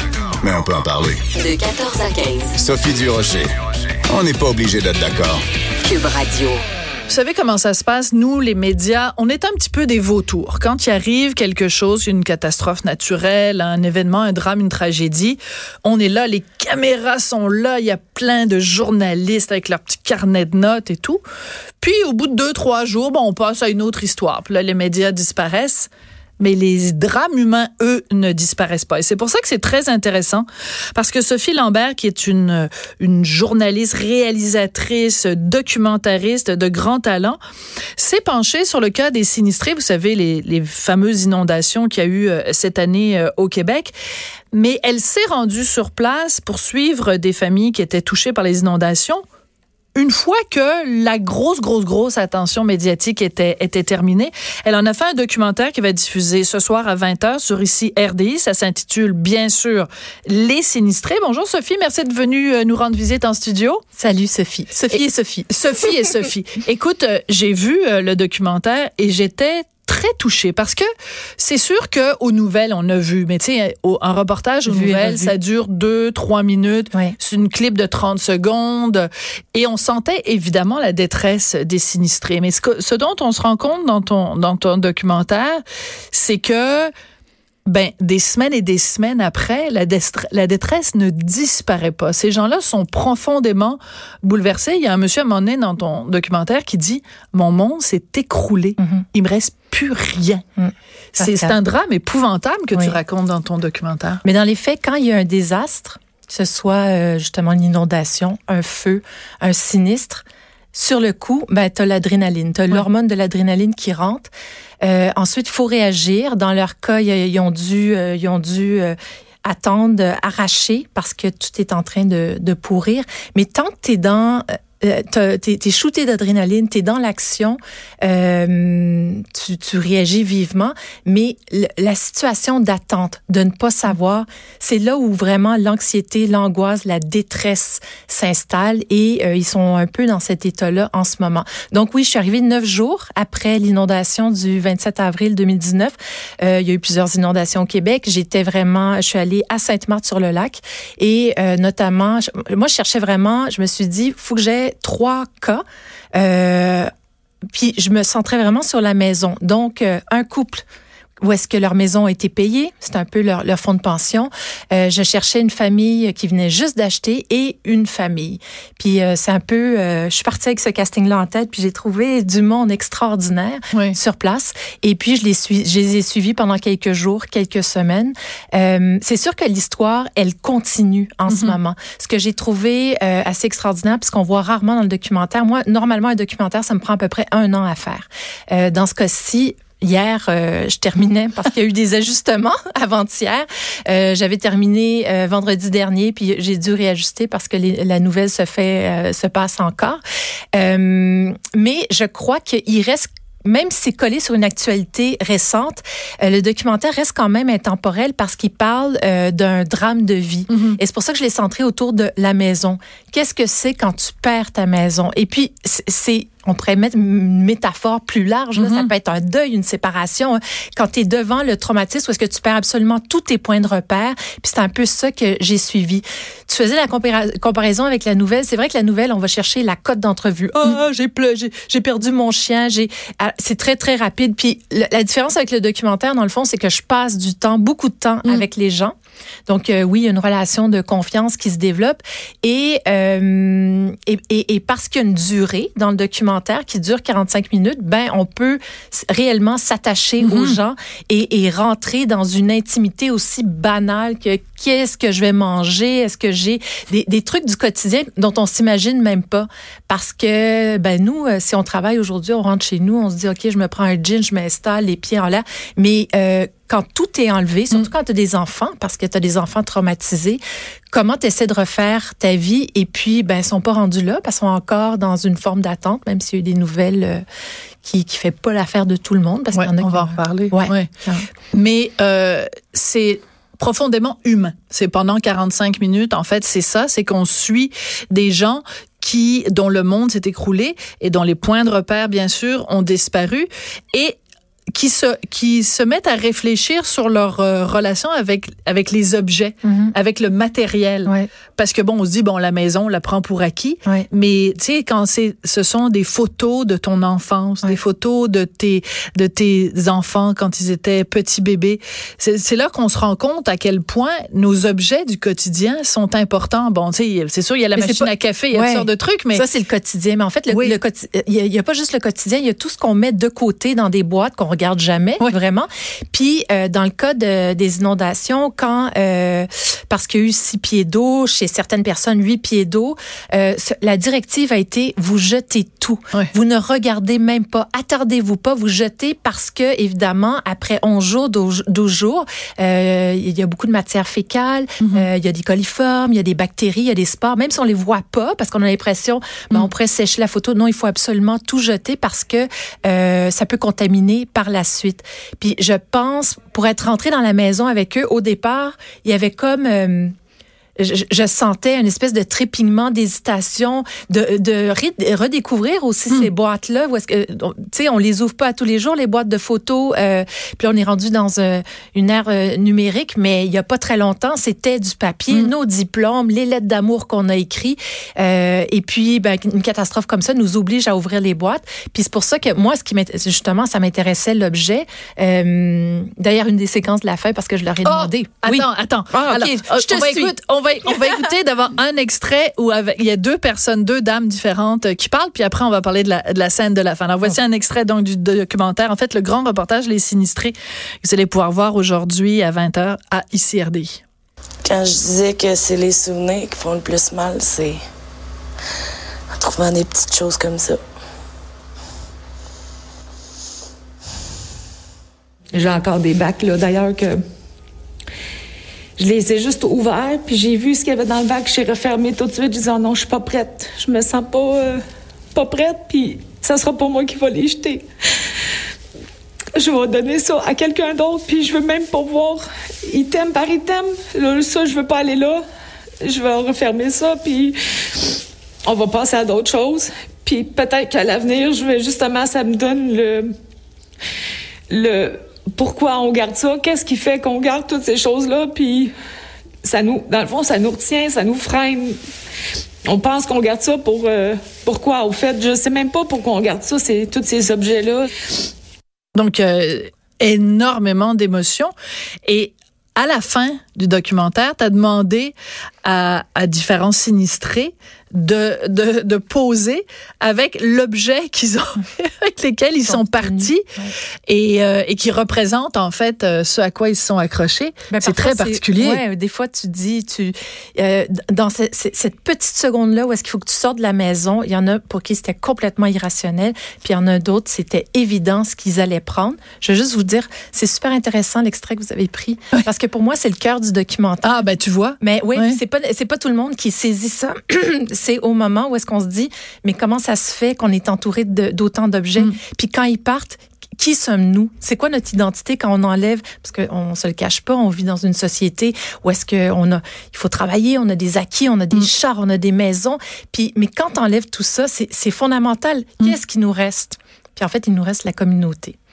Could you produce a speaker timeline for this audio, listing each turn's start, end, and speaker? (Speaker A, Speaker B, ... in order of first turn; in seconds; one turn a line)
Speaker A: 0.4-1.2
Speaker B: 1.3-2.5
Speaker A: 2.5-3.5
Speaker A: 4.1-5.4
Speaker B: 5.8-6.6
Speaker C: 7.1-21.2
Speaker C: 21.8-25.9
Speaker C: 26.4-37.4
Speaker C: 38.0-43.9
Speaker C: 44.5-49.2
Speaker C: 49.9-63.8
Speaker D: 64.0-66.0
Speaker C: 64.9-70.9
Speaker C: 71.4-85.6
Speaker D: 74.7-75.3
Speaker C: 86.1-86.9
Speaker C: 87.7-100.4
Speaker D: 98.8-99.0
Speaker D: 100.6-101.5
Speaker C: 101.2-104.2
Speaker D: 104.2-114.3
Speaker D: 114.8-155.6
Speaker D: 156.1-156.9
Speaker D: 157.5-160.6
Speaker D: 161.2-200.0
Speaker D: 200.5-238.9
Speaker D: 239.5-270.4
Speaker D: 270.9-277.2
Speaker D: 277.8-281.2
Speaker C: 279.5-280.9
Speaker C: 281.5-294.1
Speaker C: 294.7-319.4
Speaker D: 299.6-299.9
Speaker D: 317.7-360.1
Speaker D: 360.8-390.3
Speaker C: 387.9-404.0
Speaker D: 390.9-391.1
Speaker E: 404.6-407.8
Speaker E: 409.3-410.8
Speaker F: 415.5-417.2
Speaker F: 419.0-424.8
Speaker F: 425.3-427.9
Speaker F: 429.6-435.4
Speaker F: 436.0-438.1
Speaker F: 438.6-443.3
Speaker F: 444.7-448.9
Speaker F: 449.6-451.9
Speaker F: 452.9-458.1
Speaker C: 459.1-461.7
Speaker C: 462.2-473.6
Speaker D: 472.9-473.9
Speaker C: 474.3-478.9
Speaker D: 477.9-494.4
Speaker C: 494.2-495.6
Speaker D: 495.0-518.8